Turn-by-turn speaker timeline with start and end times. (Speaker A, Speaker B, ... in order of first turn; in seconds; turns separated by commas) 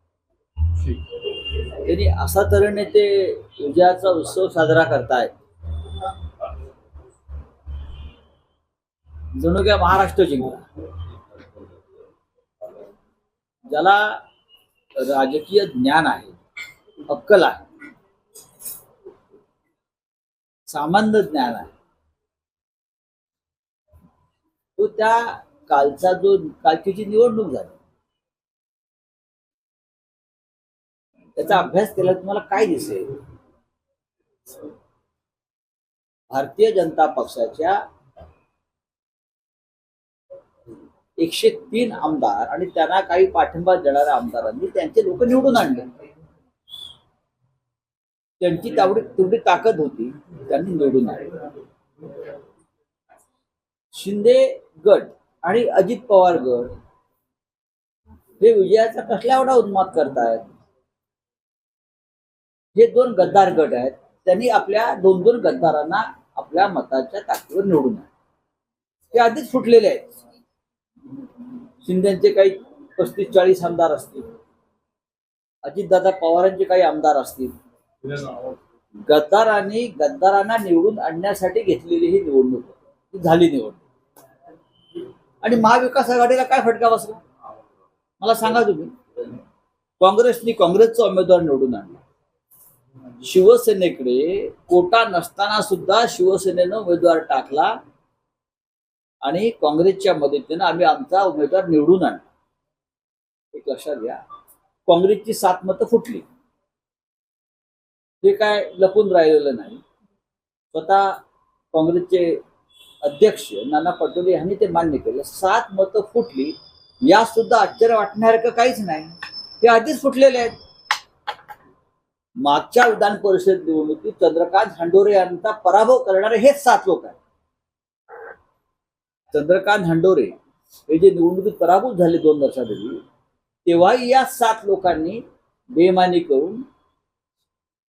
Speaker A: 0.8-5.3, Speaker A: 9.3-10.7, Speaker A: 13.7-14.2, Speaker A: 15.0-16.4, Speaker A: 17.1-17.6, Speaker A: 20.7-21.7, Speaker A: 24.8-27.8, Speaker A: 31.4-33.1, Speaker A: 36.3-37.8, Speaker A: 41.2-45.9, Speaker A: 48.4-51.5, Speaker A: 53.9-56.8, Speaker A: 58.4-60.5, Speaker A: 62.8-68.1, Speaker A: 69.1-70.2, Speaker A: 71.8-74.3, Speaker A: 75.7-77.5, Speaker A: 78.1-78.5, Speaker A: 79.1-83.8, Speaker A: 85.4-87.2, Speaker A: 88.2-89.4, Speaker A: 90.0-92.0, Speaker A: 93.2-97.8, Speaker A: 99.2-102.2, Speaker A: 103.5-104.2, Speaker A: 104.9-106.2, Speaker A: 108.2-109.8, Speaker A: 110.7-111.2, Speaker A: 111.7-112.4, Speaker A: 113.0-120.6, Speaker A: 122.4-127.2, Speaker A: 129.3-133.0, Speaker A: 133.7-136.7